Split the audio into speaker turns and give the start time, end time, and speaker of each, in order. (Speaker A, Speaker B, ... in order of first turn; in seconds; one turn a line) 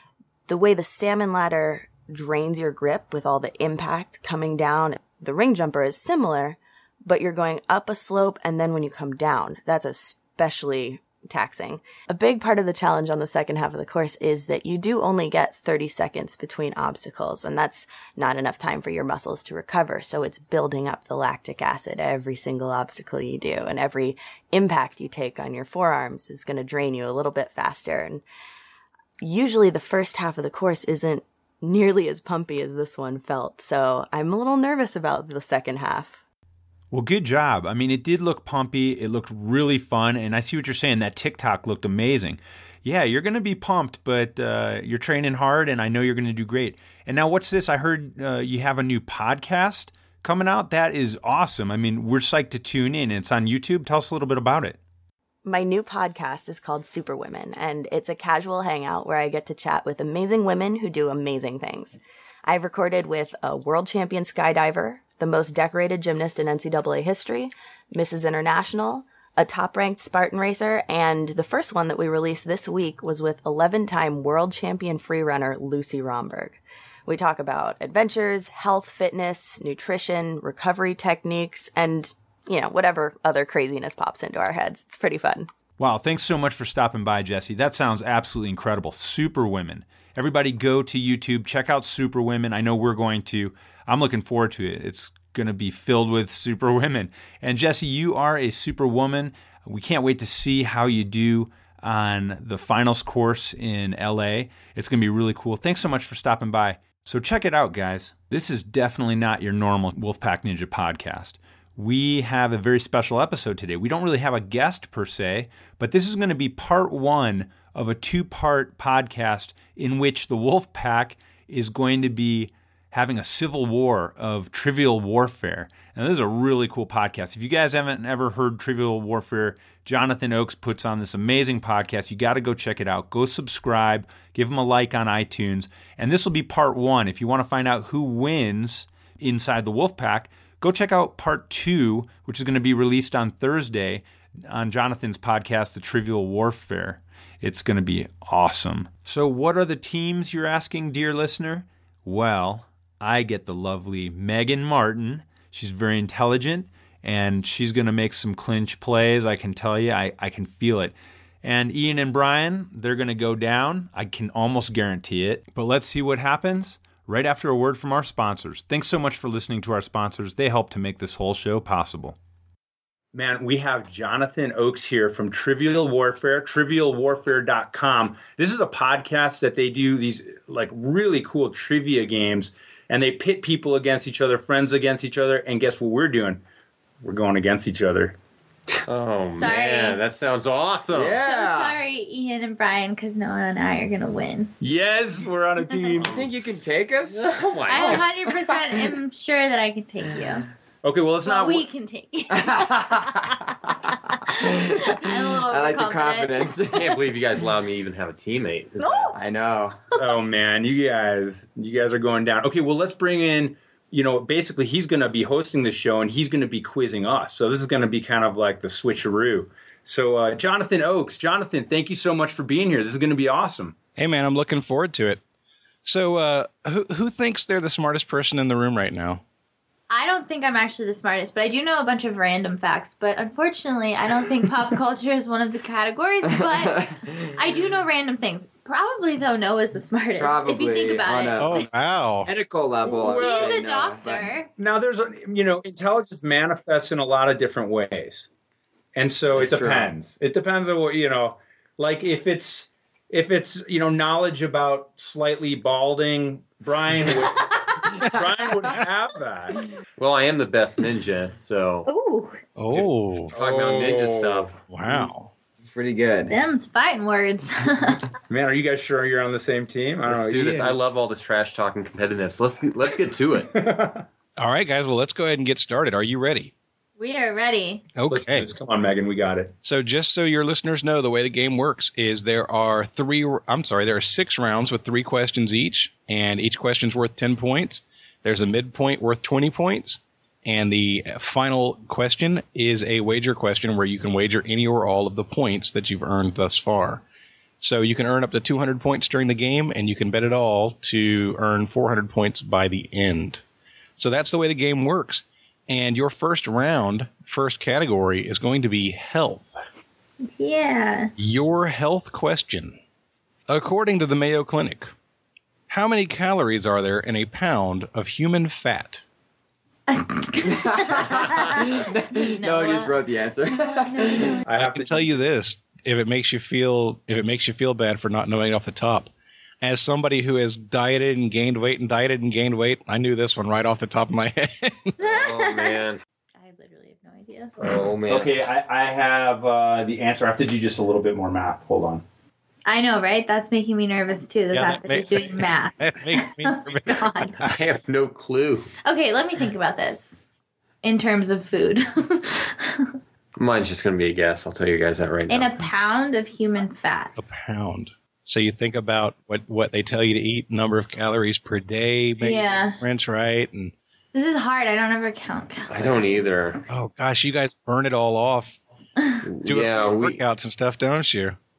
Speaker A: 0.5-28.2
Speaker A: 29.2-36.2
Speaker B: 36.9-54.8
Speaker A: 55.4-85.5
Speaker B: 85.8-172.2
Speaker B: 173.1-186.4
Speaker B: 187.0-188.2
Speaker C: 188.9-191.2
Speaker D: 189.3-190.1
Speaker E: 190.9-191.8
Speaker D: 191.2-194.5
Speaker B: 194.6-196.2
Speaker E: 196.0-197.3
Speaker C: 197.0-198.5
Speaker D: 197.7-200.5
Speaker B: 200.8-201.7
Speaker D: 201.2-206.5
Speaker E: 202.3-203.3
Speaker E: 204.3-207.0
Speaker C: 206.6-209.2
Speaker D: 208.8-209.2
Speaker E: 209.1-209.8
Speaker B: 210.0-223.8
Speaker F: 224.0-225.2
Speaker F: 225.8-229.2
Speaker D: 229.9-241.6
Speaker E: 236.3-237.3
Speaker E: 240.2-241.7
Speaker F: 241.4-242.3
Speaker E: 242.2-244.3
Speaker D: 242.8-244.5
Speaker B: 244.6-248.3
Speaker B: 248.9-259.6
Speaker E: 249.3-249.9
Speaker D: 257.4-258.0
Speaker C: 260.0-261.9
Speaker D: 261.9-262.4
Speaker F: 262.6-263.3
Speaker C: 262.8-264.6
Speaker B: 263.3-265.1
Speaker F: 264.7-265.3
Speaker E: 265.6-266.3
Speaker D: 266.3-268.1
Speaker B: 268.3-270.8
Speaker C: 270.0-273.5
Speaker B: 273.5-274.0
Speaker F: 274.4-276.5
Speaker D: 277.0-277.9
Speaker F: 277.9-278.5
Speaker B: 278.1-279.5
Speaker F: 279.6-297.0
Speaker F: 297.6-303.4
Speaker F: 304.0-309.6
Speaker D: 310.3-311.1
Speaker F: 311.2-312.8
Speaker F: 313.5-314.9
Speaker F: 315.7-319.0
Speaker D: 319.9-323.0
Speaker E: 320.4-324.4
Speaker D: 323.6-324.4
Speaker B: 324.4-325.2
Speaker F: 324.6-329.1
Speaker F: 329.6-334.9
Speaker D: 335.0-335.8
Speaker C: 335.0-336.0
Speaker D: 336.4-337.6
Speaker C: 337.6-338.3
Speaker B: 337.6-342.0
Speaker D: 342.7-347.4
Speaker F: 344.5-347.6
Speaker C: 347.4-348.7
Speaker D: 348.8-350.2
Speaker D: 350.8-352.9
Speaker C: 353.4-355.6
Speaker D: 355.3-357.1
Speaker F: 357.2-363.7
Speaker D: 362.2-362.8
Speaker D: 364.1-366.5
Speaker C: 365.7-366.6
Speaker F: 366.7-368.6
Speaker D: 369.0-369.2
Speaker C: 369.2-370.2
Speaker F: 369.4-371.4